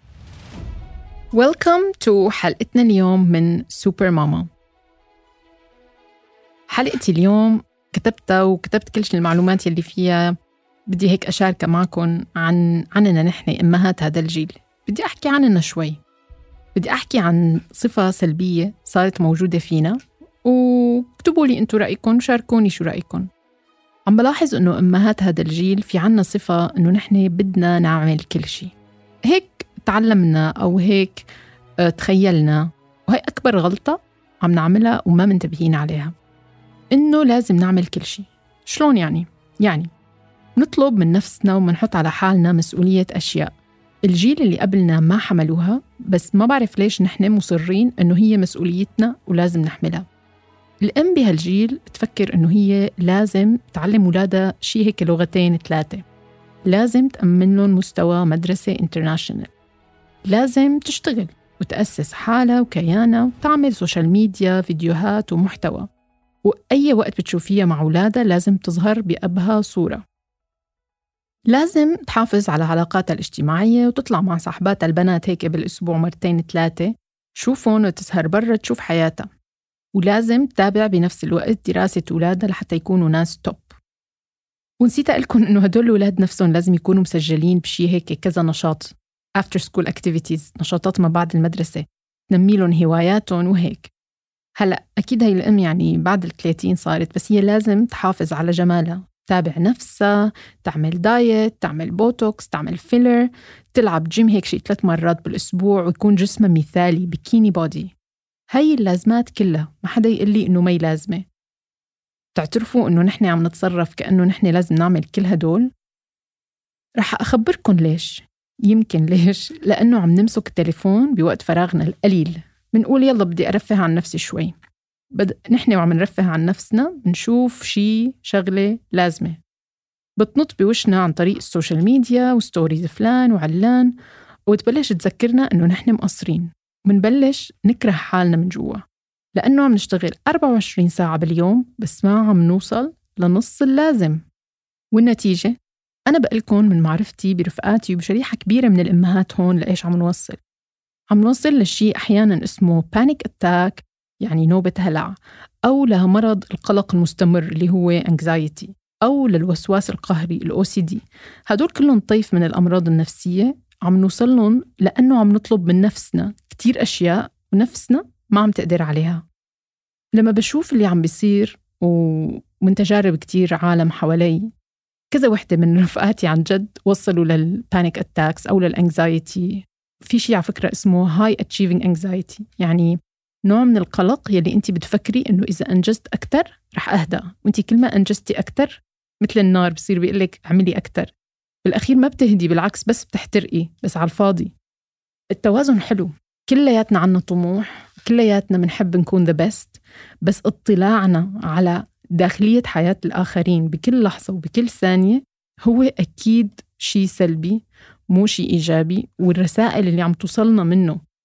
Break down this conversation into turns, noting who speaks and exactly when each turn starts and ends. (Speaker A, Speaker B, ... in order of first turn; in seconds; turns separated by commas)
Speaker A: 1.3-4.5, Speaker A: 6.7-10.3, Speaker A: 10.9-16.0, Speaker A: 16.7-23.3, Speaker A: 24.1-28.7, Speaker A: 29.2-31.3, Speaker A: 31.8-36.1, Speaker A: 36.9-39.9, Speaker A: 40.6-50.0, Speaker A: 50.8-56.0, Speaker A: 56.7-59.5, Speaker A: 60.3-65.9, Speaker A: 66.4-70.0, Speaker A: 71.5-79.3, Speaker A: 79.9-83.8, Speaker A: 84.8-93.9, Speaker A: 94.6-107.9, Speaker A: 108.5-111.2, Speaker A: 112.3-115.7, Speaker A: 117.0-124.5, Speaker A: 125.1-129.4, Speaker A: 130.2-133.9, Speaker A: 134.5-138.8, Speaker A: 139.3-144.2, Speaker A: 144.9-145.5, Speaker A: 146.1-150.4, Speaker A: 151.1-169.2, Speaker A: 170.1-174.5, Speaker A: 175.1-182.9, Speaker A: 183.5-191.1, Speaker A: 191.6-194.5, Speaker A: 195.3-211.0